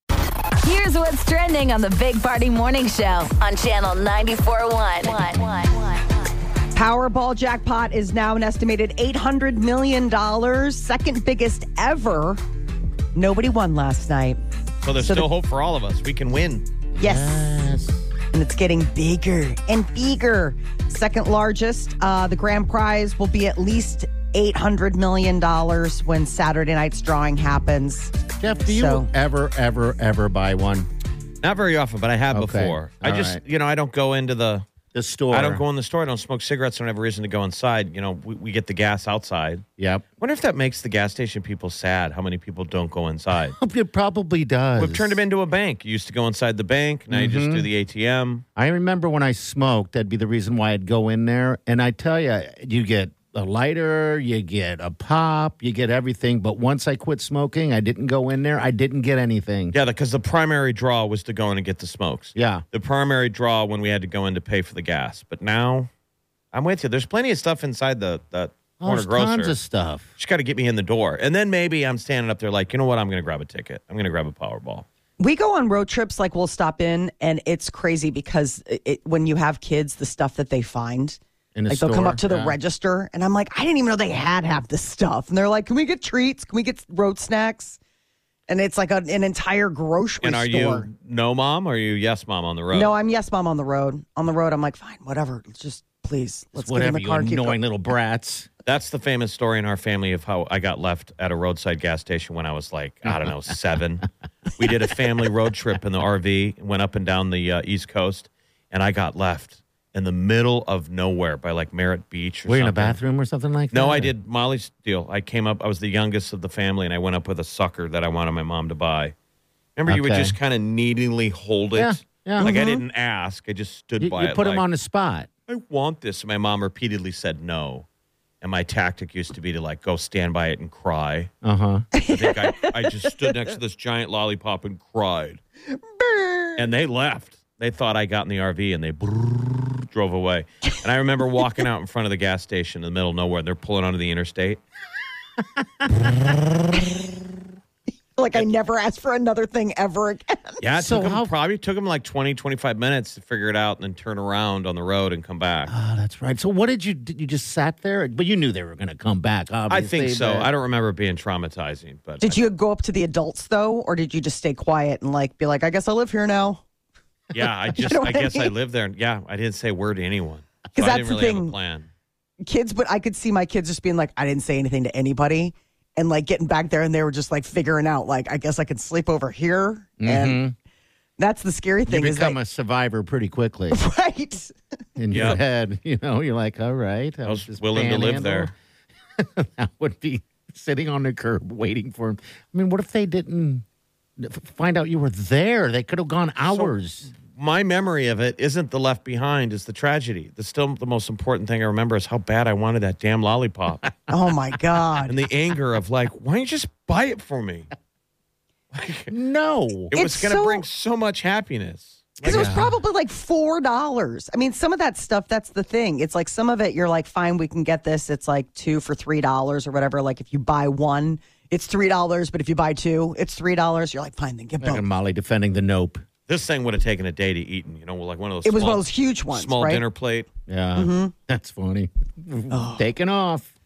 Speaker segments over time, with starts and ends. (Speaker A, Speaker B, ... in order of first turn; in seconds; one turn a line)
Speaker A: 0.6-6.0
Speaker B: 6.7-12.4
Speaker B: 13.1-14.4
Speaker C: 14.8-16.6
Speaker B: 15.0-15.3
Speaker D: 16.9-18.1
Speaker B: 17.0-17.6
Speaker B: 18.3-29.1
Speaker D: 28.4-30.9
Speaker C: 31.4-34.6
Speaker D: 32.3-33.4
Speaker D: 34.9-35.6
Speaker C: 35.3-39.6
Speaker D: 39.8-40.0
Speaker C: 40.2-43.6
Speaker D: 43.5-45.2
Speaker C: 44.8-48.4
Speaker D: 47.1-47.7
Speaker D: 48.5-59.7
Speaker C: 59.7-65.9
Speaker D: 62.3-62.6
Speaker C: 66.5-69.5
Speaker D: 68.8-70.1
Speaker C: 70.2-74.8
Speaker B: 75.2-87.8
Speaker D: 81.5-82.5
Speaker B: 88.5-90.9
Speaker C: 90.2-92.9
Speaker B: 92.7-97.6
Speaker D: 96.5-98.5
Speaker C: 98.7-113.0
Speaker D: 112.5-114.1
Speaker C: 113.7-119.1
Speaker C: 119.8-124.6
Speaker D: 119.9-120.3
Speaker D: 121.7-122.5
Speaker B: 122.4-122.8
Speaker D: 124.0-125.3
Speaker C: 125.5-127.8
Speaker C: 128.4-131.3
Speaker D: 131.4-131.9
Speaker B: 131.9-133.5
Speaker C: 132.0-135.4
Speaker B: 135.7-136.6
Speaker C: 136.6-144.6
Speaker B: 148.2-150.6
Speaker C: 150.6-155.7
Speaker D: 150.8-151.3
Speaker D: 155.7-160.5
Speaker C: 159.7-162.4
Speaker B: 162.2-166.6
Speaker C: 167.3-171.9
Speaker B: 167.8-168.5
Speaker B: 170.7-171.6
Speaker B: 172.4-180.4
Speaker D: 180.0-180.5
Speaker B: 181.2-182.4
Speaker D: 181.9-183.8
Speaker B: 183.7-184.5
Speaker D: 185.0-188.5
Speaker C: 185.1-185.4
Speaker C: 187.2-188.5
Speaker D: 189.2-193.6
Speaker D: 194.2-197.1
Speaker C: 196.4-203.9
Speaker B: 204.1-205.2
Speaker C: 205.1-207.7
Speaker C: 208.7-209.1
Speaker D: 209.1-209.9
Speaker C: 209.9-212.6
Speaker B: 209.9-210.6
Speaker B: 212.2-224.9
Speaker D: 212.2-212.8
Speaker D: 224.6-226.0
Speaker C: 226.3-230.3
Speaker B: 228.4-229.8
Speaker D: 230.5-233.5
Speaker B: 230.8-231.1
Speaker B: 232.5-232.8